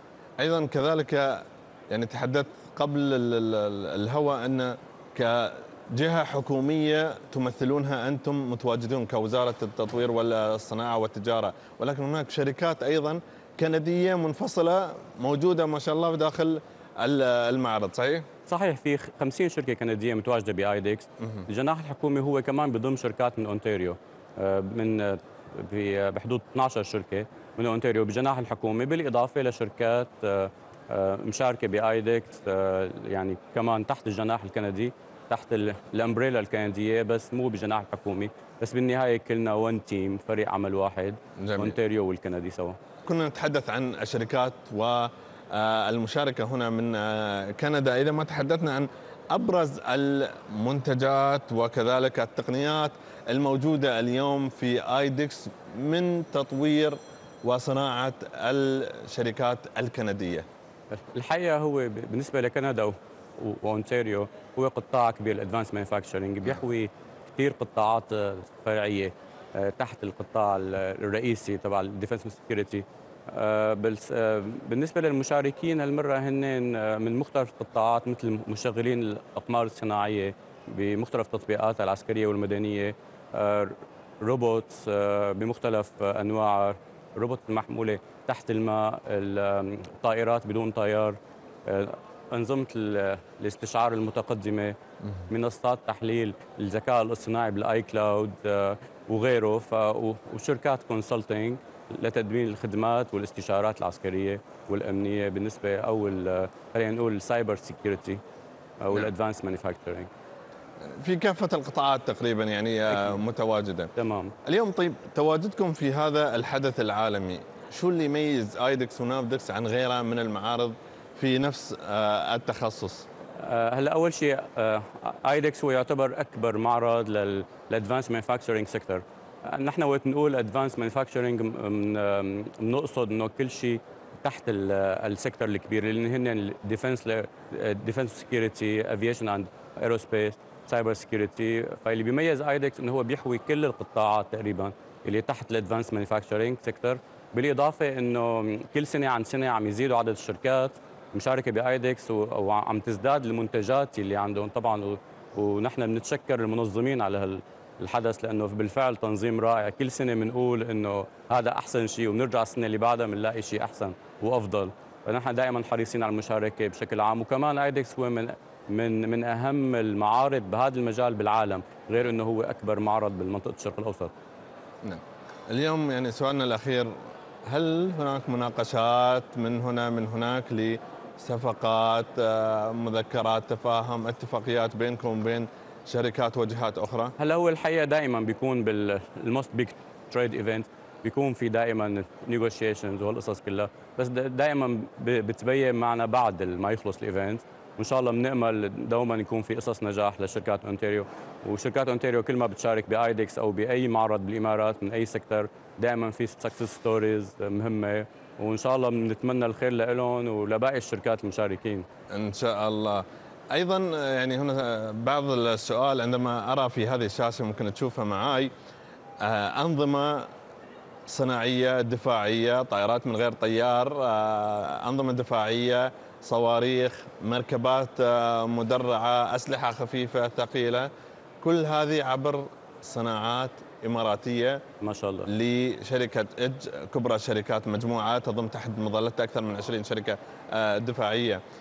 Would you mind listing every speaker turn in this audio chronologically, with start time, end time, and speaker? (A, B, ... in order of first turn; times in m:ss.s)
0:00.4-0:18.2 A
0:18.5-0:42.8 B
0:21.2-0:21.5 A
0:41.4-0:41.8 A
0:43.0-1:00.5 A
1:00.9-1:34.8 B
1:35.3-1:48.2 B
1:48.8-1:50.1 B
1:50.9-1:53.9 A
1:54.0-1:54.3 B
1:54.4-2:03.1 A
2:03.4-2:54.1 B
2:54.8-2:56.9 A
2:57.4-3:07.1 A
3:07.2-3:31.8 B
3:32.1-3:38.5 A
3:39.2-3:40.3 A
3:41.1-3:50.9 A
3:51.4-3:54.6 A
3:54.8-3:55.3 B
3:55.2-4:01.4 A